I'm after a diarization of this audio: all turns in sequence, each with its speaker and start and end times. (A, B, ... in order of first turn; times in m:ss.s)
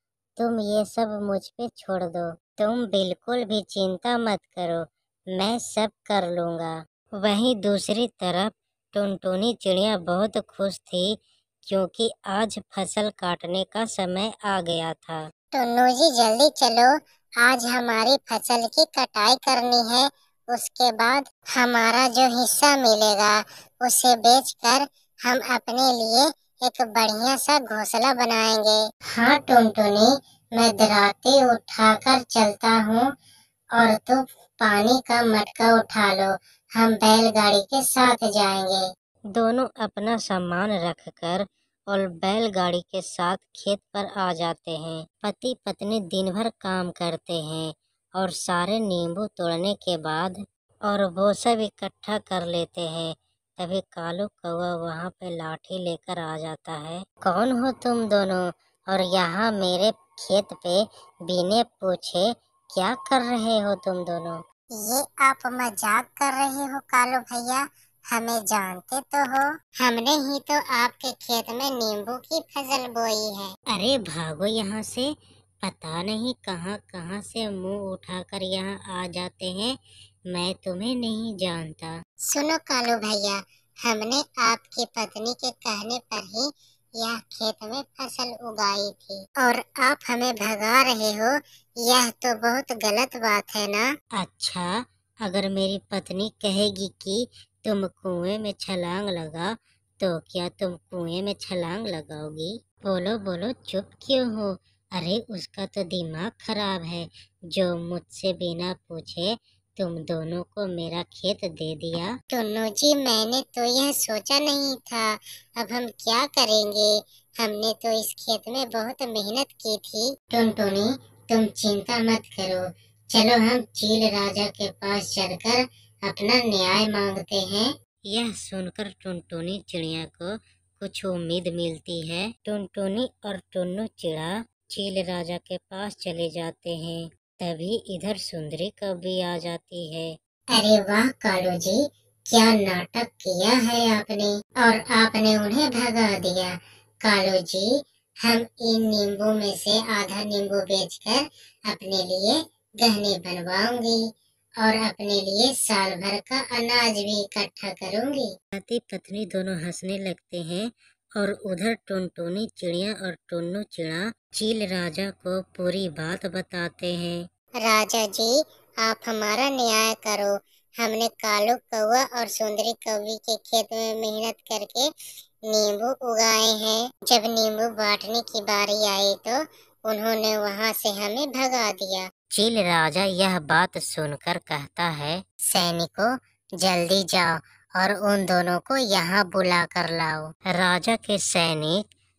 0:00.4-0:11.1 A
0:11.6-0:15.2 A
0:15.5-0:16.9 B
0:17.4-0:33.0 B
0:29.2-0:29.8 A
0:33.8-0:38.8 B
0:39.3-1:04.4 A
1:04.8-1:13.5 B
1:13.7-1:15.1 A
1:15.6-1:19.8 A
1:20.3-1:22.0 A
1:22.3-1:33.8 B
1:34.2-1:34.7 A
1:35.2-1:52.2 A
1:52.3-2:07.7 B
2:08.1-2:20.2 A
2:20.5-2:21.8 B
2:22.3-2:26.5 B
2:27.0-2:27.7 B
2:28.2-2:34.0 B
2:34.6-2:38.3 B
2:38.5-2:47.2 A
2:47.6-2:48.3 B
2:48.8-2:54.9 B
2:55.5-3:02.1 B
3:02.3-3:05.2 A
3:05.4-3:06.1 B
3:06.6-3:10.3 B
3:10.5-3:11.8 A